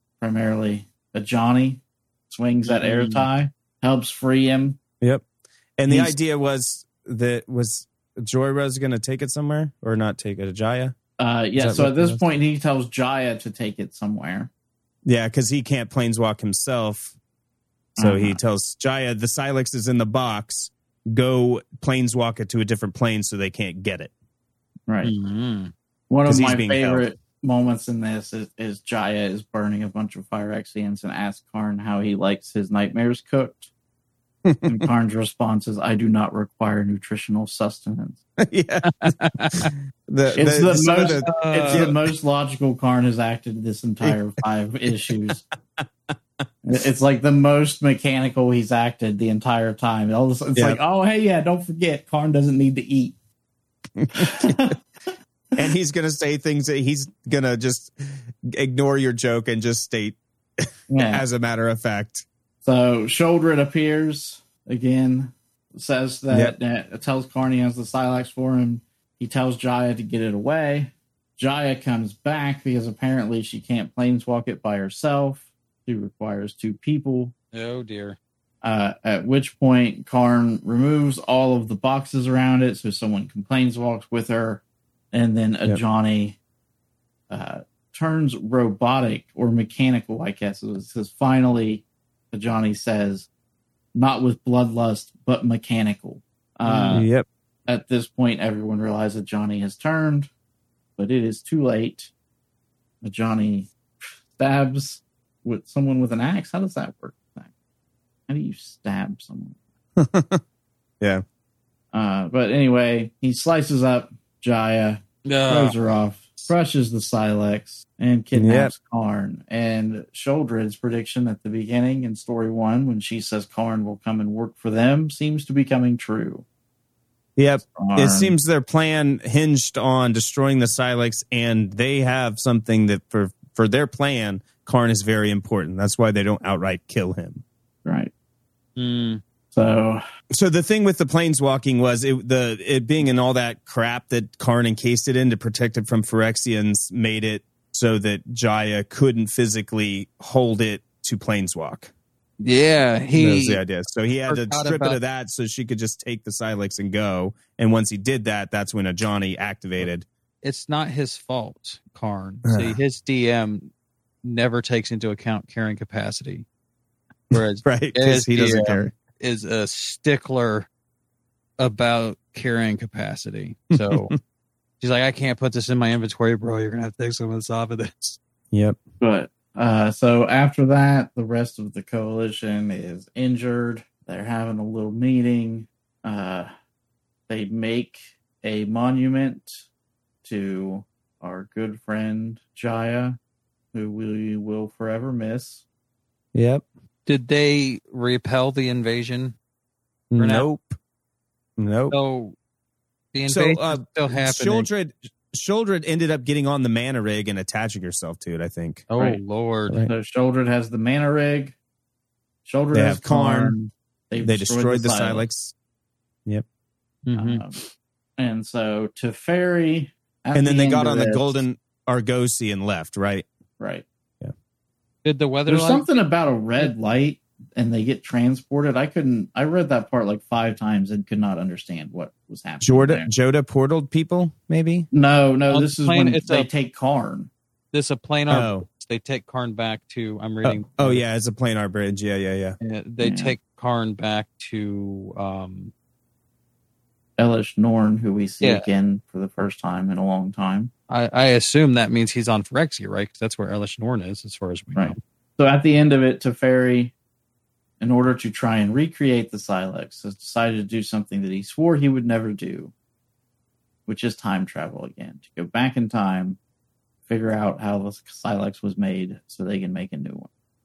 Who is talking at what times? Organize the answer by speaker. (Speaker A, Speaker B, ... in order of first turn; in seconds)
Speaker A: 0.2-4.8, 5.9-6.2, 11.2-14.5, 18.0-18.4, 24.9-25.1, 26.1-33.7, 34.7-38.2, 40.3-45.5, 46.6-53.1, 54.1-54.8, 60.9-61.2, 62.6-77.3, 78.6-86.4, 87.3-93.3, 94.0-97.1, 97.7-100.3, 101.0-102.1, 103.0-107.5, 108.3-109.6, 111.9-126.5, 127.7-128.3, 137.8-138.1, 139.5-140.0, 179.0-186.5, 187.3-189.7, 190.2-193.2, 193.7-195.6, 209.8-211.6, 212.4-215.2, 217.2-217.5, 218.2-221.4, 223.6-223.9, 225.5-233.1, 234.9-237.3, 243.0-243.3, 247.2-250.7, 254.8-256.9, 257.8-262.7, 263.9-266.4, 267.1-270.3
Speaker B: 2.6-3.3, 25.0-25.7, 38.8-39.7, 40.8-41.9, 77.5-78.2, 96.7-97.0, 115.3-115.8, 138.8-139.2, 152.4-153.6, 154.3-155.0, 160.4-163.7, 164.2-166.5, 167.3-170.7, 171.6-174.1, 174.8-178.2, 197.1-199.4, 200.2-200.5, 201.9-202.4, 203.1-204.7, 208.9-209.8, 217.1-217.4, 225.0-225.9, 235.5-236.5, 237.7-241.0, 242.6-245.7, 248.4-248.7, 250.9-255.0
Speaker C: 5.8-10.9, 11.6-12.2, 15.1-17.1, 18.0-24.1, 26.3-27.1, 34.5-34.9, 38.4-39.1, 39.7-42.0, 45.8-46.1, 50.5-50.8, 54.0-54.7, 55.6-62.2, 96.9-97.3, 110.0-110.4, 118.3-118.7, 127.4-137.4, 140.3-151.9, 153.2-160.1, 162.4-162.8, 167.3-168.9, 173.7-174.2, 178.5-178.8, 196.3-196.7, 200.1-200.8, 201.6-202.0, 203.3-208.9, 212.7-213.6, 214.2-215.5, 220.3-223.3, 232.6-234.9, 238.3-238.7, 240.4-242.6